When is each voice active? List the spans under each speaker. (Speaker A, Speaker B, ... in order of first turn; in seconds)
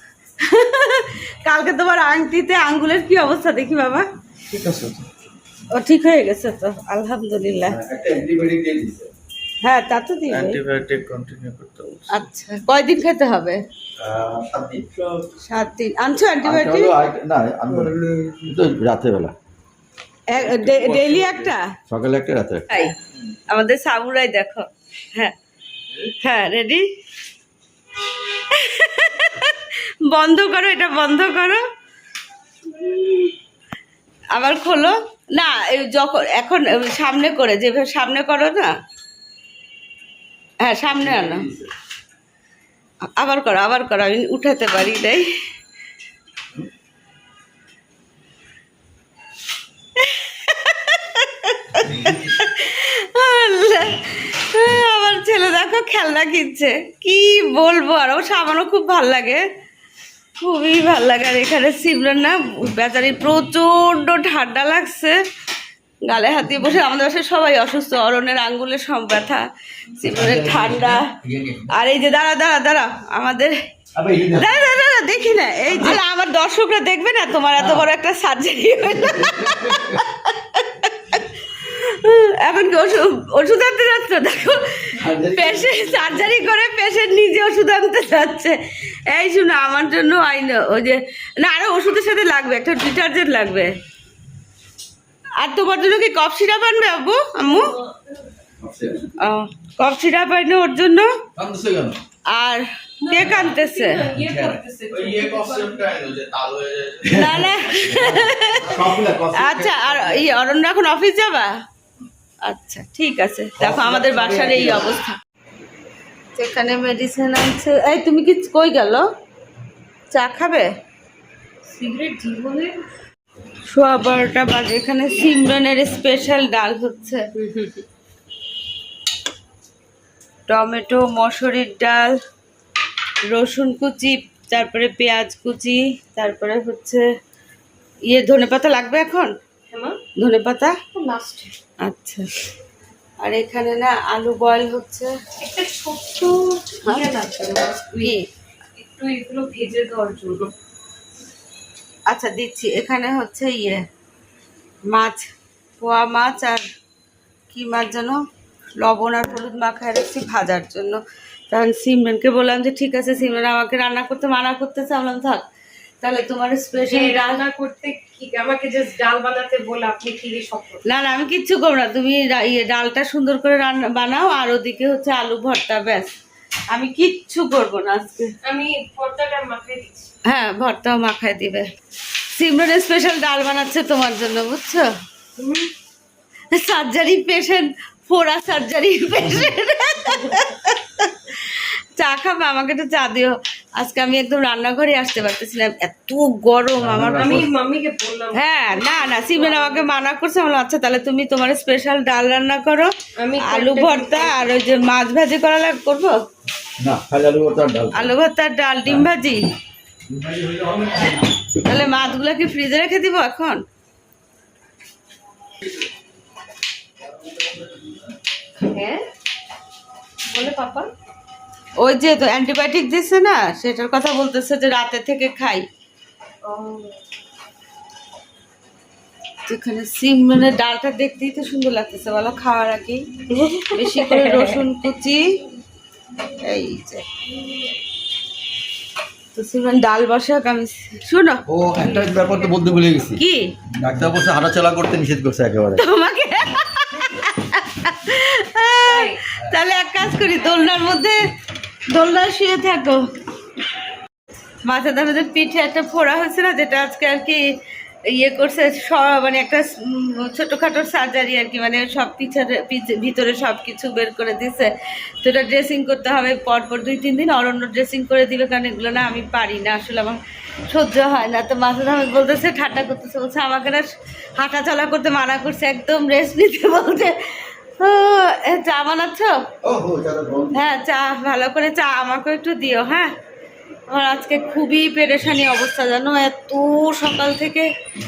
Speaker A: 0.4-4.0, 5.7-7.8, 9.6-10.6, 12.1-13.6, 15.4-16.9, 20.3-21.7, 22.7-22.9, 23.5-25.3, 26.1-26.9, 28.5-31.6, 32.6-33.3, 34.3-38.7, 40.6-41.5, 43.2-45.3, 50.0-59.4, 60.4-65.2, 66.0-71.1, 71.7-73.5, 74.3-93.8, 95.4-97.8, 99.2-101.1, 102.3-104.0, 107.1-111.5, 112.4-115.2, 116.3-119.1, 120.1-120.7, 123.7-127.2, 130.5-132.2, 133.3-137.0, 138.1-139.3, 140.2-140.8, 141.8-142.3, 143.2-145.1, 146.8-147.1, 148.0-148.3, 152.1-153.8, 154.9-156.6, 157.5-158.2, 158.8-165.4, 166.0-167.4, 170.8-176.1, 176.7-178.3, 180.2-181.7, 182.3-184.9, 186.5-197.4, 198.3-206.1, 207.9-209.5, 211.6-213.6, 221.8-225.7, 229.4-233.1, 233.7-235.3, 236.4-237.0, 239.3-241.4, 243.2-243.5, 245.7-251.2, 251.9-253.1, 254.6-257.4, 258.1-279.4, 280.5-283.1, 283.9-287.7
Speaker B: 4.5-5.1, 10.3-12.2, 17.7-18.5, 20.3-21.5, 104.9-107.2
Speaker C: 7.7-9.1, 14.0-15.0, 16.4-19.4, 21.9-22.7, 41.0-41.7, 51.8-52.3, 70.0-71.7, 73.9-74.5, 77.6-77.9, 79.2-80.0, 85.0-86.3, 98.6-99.0, 101.3-102.0, 104.2-104.6, 107.0-110.3, 113.6-114.9, 196.8-197.5, 206.8-208.1, 210.1-211.3, 217.2-218.0, 241.5-243.2, 243.8-245.8, 279.6-280.6
Speaker D: 97.4-98.1, 103.0-105.8, 121.7-122.8, 127.4-127.8, 139.7-140.0, 140.9-141.5, 145.4-148.1, 148.8-150.5, 166.9-170.8, 178.4-180.1, 185.4-185.7, 197.0-199.9, 203.2-204.5, 218.6-219.0, 220.2-220.9, 226.4-227.0, 233.3-234.6, 248.8-249.2